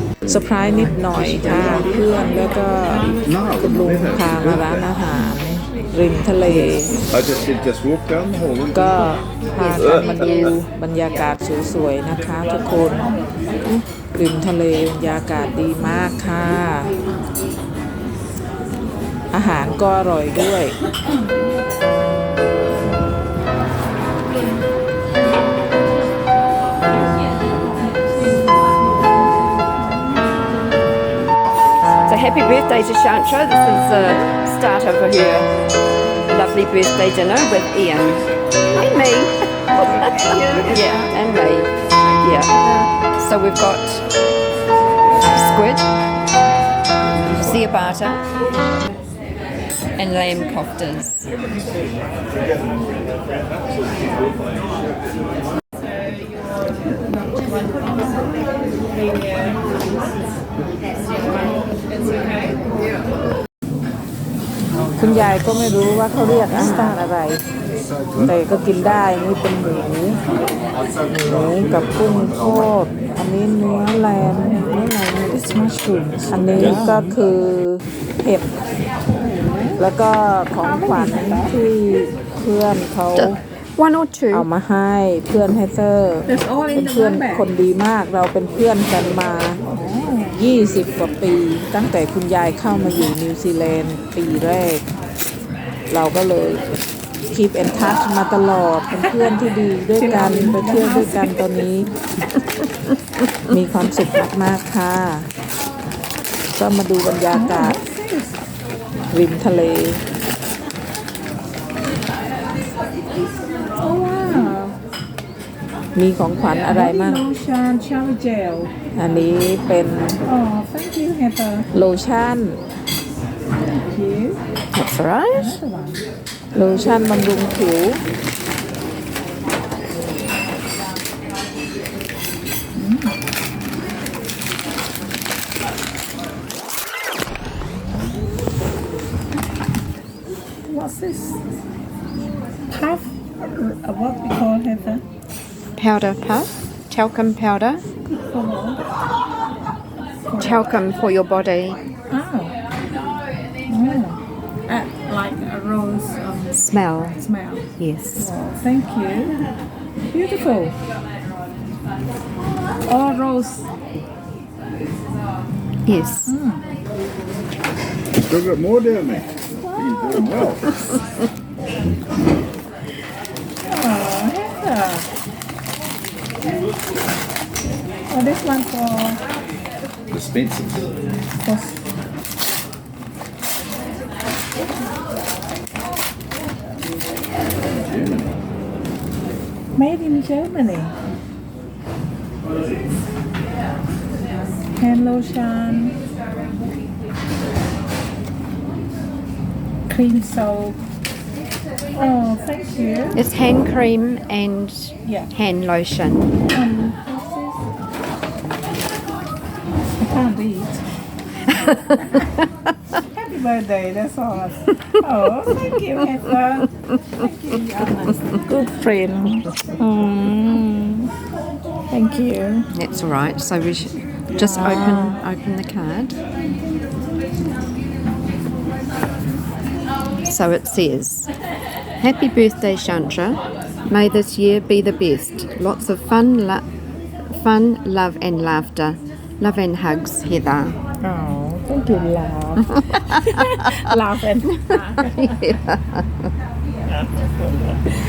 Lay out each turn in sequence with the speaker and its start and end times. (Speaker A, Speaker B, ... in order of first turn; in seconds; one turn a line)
Speaker A: 0.2-7.0
Speaker B: 1.3-1.9
Speaker C: 1.4-2.2
Speaker D: 1.5-1.9
Speaker D: 3.2-4.9
Speaker D: 7.1-9.1
Speaker A: 8.7-13.1
Speaker B: 9.5-10.6
Speaker D: 9.7-10.5
Speaker A: 14.1-16.9
Speaker A: 19.3-20.8
Speaker B: 32.0-35.5
Speaker B: 36.3-39.3
Speaker B: 39.8-42.5
Speaker C: 40.3-41.1
Speaker B: 43.2-44.1
Speaker B: 45.3-45.9
Speaker B: 47.4-48.3
Speaker B: 50.0-51.3
Speaker A: 65.0-67.4
Speaker C: 66.5-67.0
Speaker A: 68.2-70.2
Speaker A: 71.2-75.5
Speaker C: 74.3-74.8
Speaker C: 75.3-77.1
Speaker A: 76.3-78.5
Speaker C: 79.1-79.8
Speaker A: 79.8-83.4
Speaker C: 80.5-81.5
Speaker B: 83.2-84.5
Speaker A: 84.3-89.6
Speaker C: 86.3-87.5
Speaker C: 89.7-90.4
Speaker A: 90.3-94.8
Speaker A: 95.9-96.6
Speaker A: 97.3-101.9
Speaker C: 100.0-101.5
Speaker B: 102.3-103.6
Speaker A: 103.5-105.3
Speaker A: 106.5-107.8
Speaker C: 107.3-108.4
Speaker A: 109.1-110.0
Speaker C: 113.7-114.8
Speaker A: 116.0-117.2
Speaker C: 116.5-118.7
Speaker A: 119.0-120.2
Speaker C: 120.2-121.7
Speaker A: 121.7-122.6
Speaker C: 123.9-124.4
Speaker B: 124.7-125.6
Speaker C: 125.3-126.0
Speaker A: 126.5-128.0
Speaker C: 132.8-133.2
Speaker C: 140.7-141.4
Speaker C: 142.7-145.0
Speaker B: 145.8-147.8
Speaker C: 148.3-148.8
Speaker C: 150.3-150.6
Speaker B: 150.4-151.8
Speaker C: 152.1-152.5
Speaker C: 153.7-156.6
Speaker B: 156.5-157.2
Speaker C: 157.2-159.4
Speaker B: 157.8-158.3
Speaker C: 160.1-160.8
Speaker C: 162.9-163.7
Speaker B: 165.9-166.4
Speaker C: 166.3-166.6
Speaker D: 168.2-170.8
Speaker C: 169.6-170.6
Speaker C: 173.7-175.1
Speaker C: 178.1-179.2
Speaker D: 180.1-180.9
Speaker C: 181.4-181.8
Speaker D: 187.7-188.4
Speaker C: 189.8-190.9
Speaker C: 194.8-196.0
Speaker C: 199.9-200.8
Speaker C: 202.0-203.2
Speaker B: 203.2-206.3
Speaker C: 205.0-205.3
Speaker C: 206.5-207.6
Speaker C: 210.0-210.8
Speaker B: 211.5-212.5
Speaker C: 211.5-212.2
Speaker C: 213.1-221.1
Speaker C: 221.9-222.7
Speaker B: 222.7-226.2
Speaker C: 224.3-225.2
Speaker B: 230.3-231.3
Speaker B: 232.0-236.7
Speaker B: 237.3-240.8
Speaker C: 241.0-245.5
Speaker B: 242.8-243.2
Speaker B: 244.7-246.3
Speaker C: 246.9-247.9